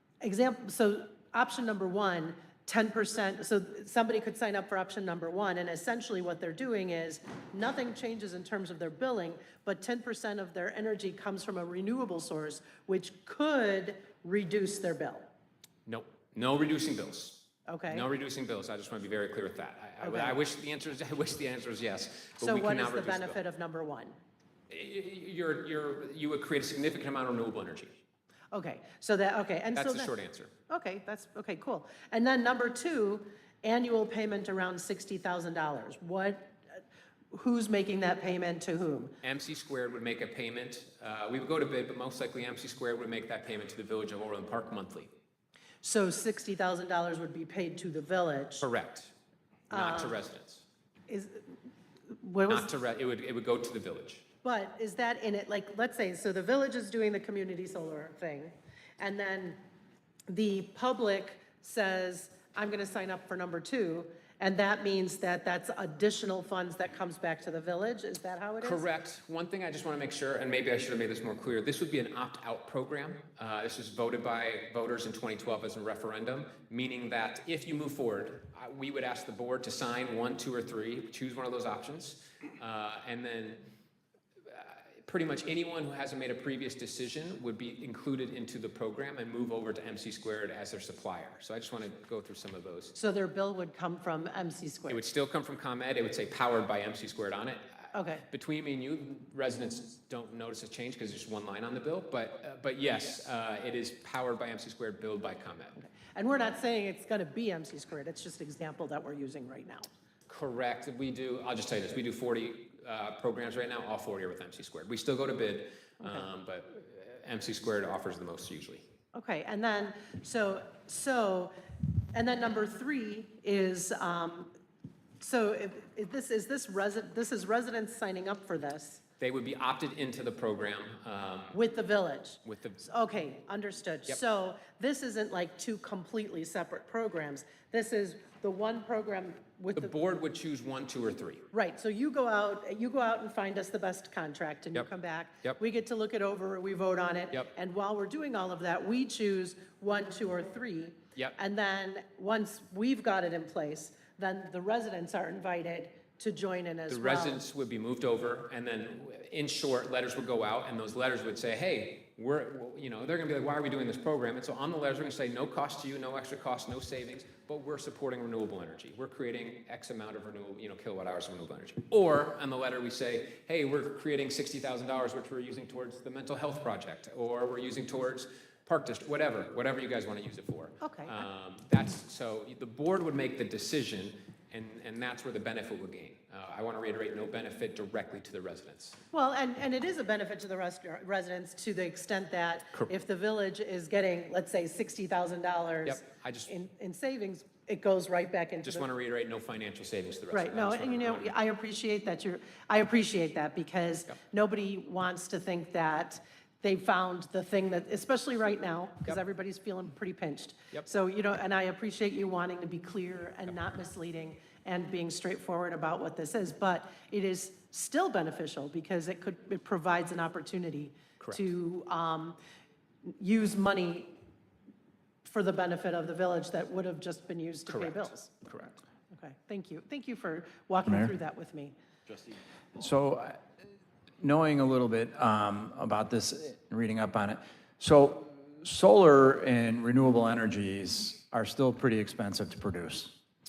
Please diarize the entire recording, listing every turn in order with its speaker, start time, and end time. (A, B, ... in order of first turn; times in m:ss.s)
0:00.2-0:15.3 A
0:15.9-0:23.4 B
0:17.7-0:18.1 A
0:20.0-0:20.4 A
0:22.4-0:24.2 A
0:24.7-0:28.0 B
0:28.5-0:30.1 A
0:29.8-0:30.5 B
0:30.7-0:36.6 A
0:37.3-0:39.1 A
0:39.2-0:45.1 B
0:45.8-0:48.7 A
0:48.6-0:49.1 B
0:49.7-0:50.2 A
0:49.7-0:50.6 B
0:51.1-0:51.5 A
0:52.2-0:52.7 A
0:52.5-0:54.2 B
0:54.4-0:59.6 A
1:00.3-1:08.8 A
1:08.6-1:23.6 B
1:24.5-1:33.0 B
1:33.0-1:35.0 A
1:34.9-1:45.8 B
1:37.9-1:38.2 A
1:45.8-1:49.9 A
1:50.3-1:58.9 B
1:56.0-1:56.3 A
1:59.1-2:01.5 A
2:02.1-2:04.5 A
2:05.2-2:09.0 A
2:09.2-2:11.6 B
2:11.5-2:19.9 A
2:12.4-2:12.8 B
2:19.8-2:21.5 B
2:21.5-2:37.4 A
2:36.9-3:09.0 B
3:00.8-3:01.3 A
3:09.1-3:18.9 A
3:15.8-3:16.5 B
3:18.6-3:21.3 B
3:20.3-3:42.4 A
3:43.2-3:44.1 A
3:45.2-3:48.3 A
3:47.7-3:48.8 B
3:49.1-3:51.7 A
3:50.8-3:51.2 C
3:52.8-3:53.4 C
3:54.2-4:03.1 C